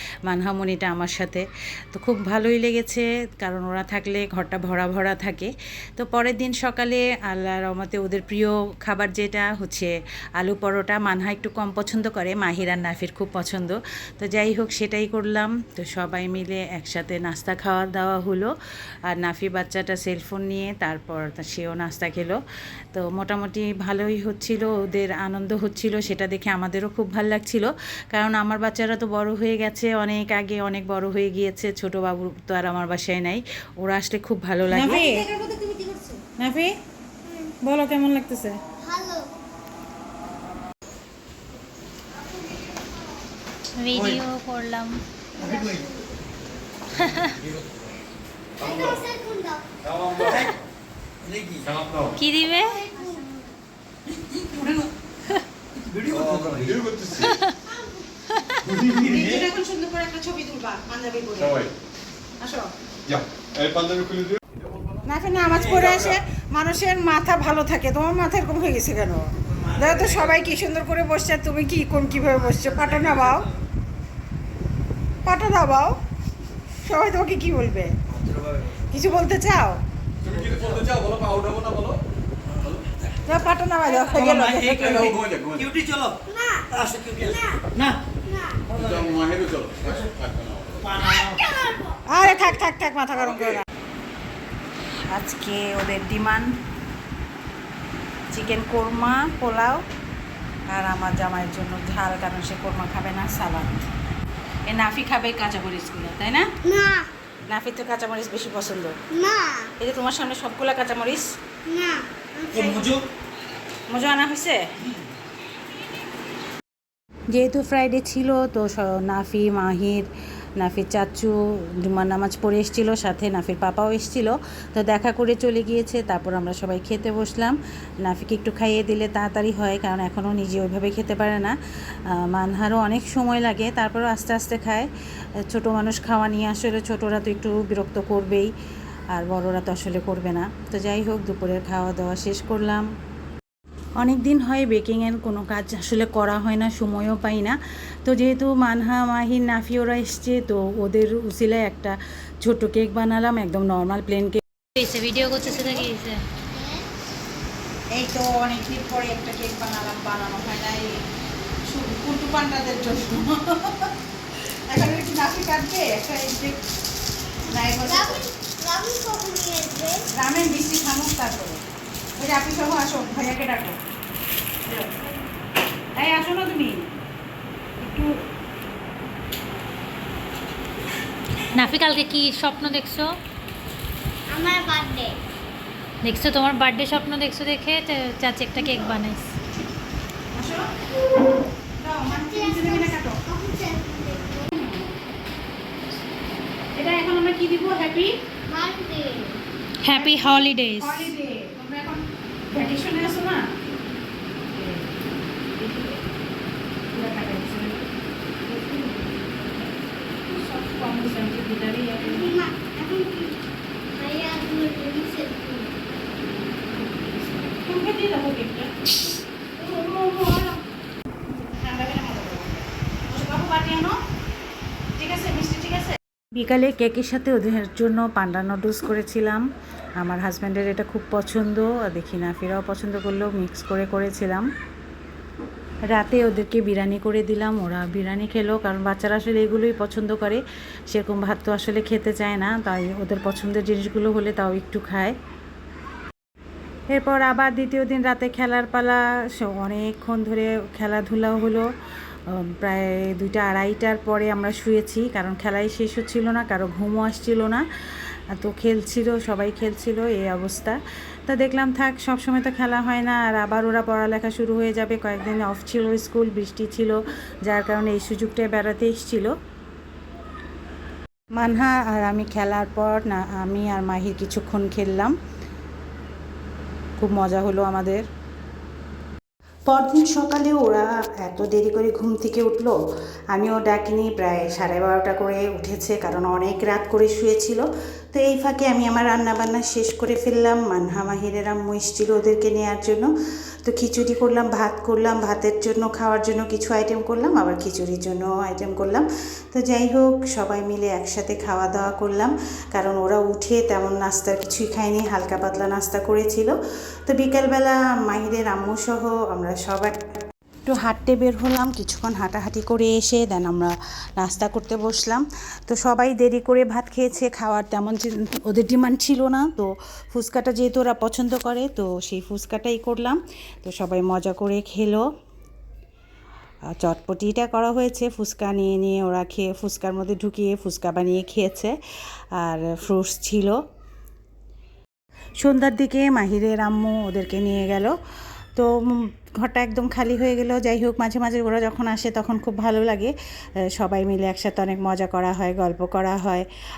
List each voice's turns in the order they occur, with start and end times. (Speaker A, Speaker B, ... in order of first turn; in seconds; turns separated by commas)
Speaker A: 0.2-18.5, Speaker A: 19.1-22.4, Speaker A: 22.9-35.2, Speaker B: 34.7-36.2, Speaker A: 36.4-36.7, Speaker B: 37.2-37.5, Speaker A: 37.6-38.5, Speaker B: 38.8-39.3, Speaker C: 43.8-45.0, Speaker D: 43.9-44.2, Speaker B: 45.4-45.9, Speaker D: 45.4-45.9, Speaker C: 47.0-47.3, Speaker E: 47.3-47.8, Speaker B: 48.6-49.6, Speaker E: 48.6-49.0, Speaker E: 49.8-50.5, Speaker D: 50.2-50.5, Speaker D: 51.2-51.8, Speaker E: 51.6-52.2, Speaker C: 52.2-52.9, Speaker B: 52.4-53.5, Speaker A: 54.5-54.9, Speaker D: 55.8-56.9, Speaker E: 56.1-57.4, Speaker C: 57.2-57.5, Speaker B: 57.7-58.1, Speaker C: 58.3-58.6, Speaker E: 58.6-59.1, Speaker D: 58.9-59.5, Speaker A: 59.0-61.6, Speaker E: 61.4-61.7, Speaker A: 62.4-62.7, Speaker E: 63.0-65.0, Speaker A: 65.0-73.5, Speaker D: 65.5-66.2, Speaker D: 69.5-70.6, Speaker D: 72.3-73.4, Speaker A: 75.2-76.0, Speaker A: 76.8-77.9, Speaker D: 78.1-78.8, Speaker A: 78.9-79.8, Speaker E: 80.2-82.8, Speaker D: 80.3-80.8, Speaker A: 83.2-85.2, Speaker D: 83.8-86.2, Speaker E: 85.0-85.7, Speaker B: 86.3-87.7, Speaker D: 86.7-88.0, Speaker B: 88.2-88.7, Speaker D: 88.7-89.2, Speaker E: 88.8-90.9, Speaker D: 90.8-91.4, Speaker B: 91.3-92.4, Speaker A: 92.1-93.6, Speaker A: 95.1-96.5, Speaker A: 98.3-99.8, Speaker A: 100.7-103.8, Speaker A: 104.7-106.5, Speaker B: 106.6-107.1, Speaker A: 107.5-109.0, Speaker B: 109.1-109.7, Speaker A: 109.8-111.3, Speaker B: 111.7-112.8, Speaker D: 112.5-113.0, Speaker A: 113.9-114.6, Speaker A: 117.3-120.1, Speaker A: 120.6-131.5, Speaker A: 132.1-134.9, Speaker A: 135.5-138.5, Speaker A: 139.1-142.9, Speaker A: 144.0-154.4, Speaker C: 154.8-156.2, Speaker B: 155.2-155.8, Speaker B: 156.5-156.8, Speaker A: 157.9-161.0, Speaker A: 161.7-163.9, Speaker A: 164.7-166.6, Speaker A: 167.5-168.2, Speaker B: 167.5-170.1, Speaker A: 170.1-171.6, Speaker A: 172.2-173.8, Speaker A: 175.9-176.8, Speaker A: 177.8-178.1, Speaker C: 181.5-183.1, Speaker B: 184.3-185.2, Speaker C: 186.0-189.3, Speaker B: 188.6-188.9, Speaker A: 190.3-190.7, Speaker A: 191.8-193.2, Speaker B: 192.1-194.5, Speaker A: 194.5-194.9, Speaker A: 196.7-198.2, Speaker B: 198.5-199.4, Speaker C: 199.8-201.1, Speaker A: 199.9-203.4, Speaker A: 204.5-205.0, Speaker A: 205.6-206.0, Speaker A: 206.9-207.8, Speaker A: 208.4-212.3, Speaker B: 212.0-213.4, Speaker B: 213.9-215.8, Speaker A: 216.7-218.7, Speaker A: 219.6-220.5, Speaker A: 221.3-223.9, Speaker A: 225.0-229.4, Speaker A: 230.0-234.5, Speaker A: 235.9-245.1, Speaker A: 246.9-251.7, Speaker A: 252.3-257.6, Speaker A: 258.4-269.3, Speaker A: 271.4-275.1, Speaker A: 277.0-278.0, Speaker A: 279.7-282.8, Speaker A: 283.3-293.1, Speaker A: 293.6-309.9, Speaker A: 310.6-325.0, Speaker A: 326.7-331.7, Speaker A: 332.4-333.6, Speaker A: 335.4-337.9, Speaker A: 338.6-343.1, Speaker A: 343.7-346.4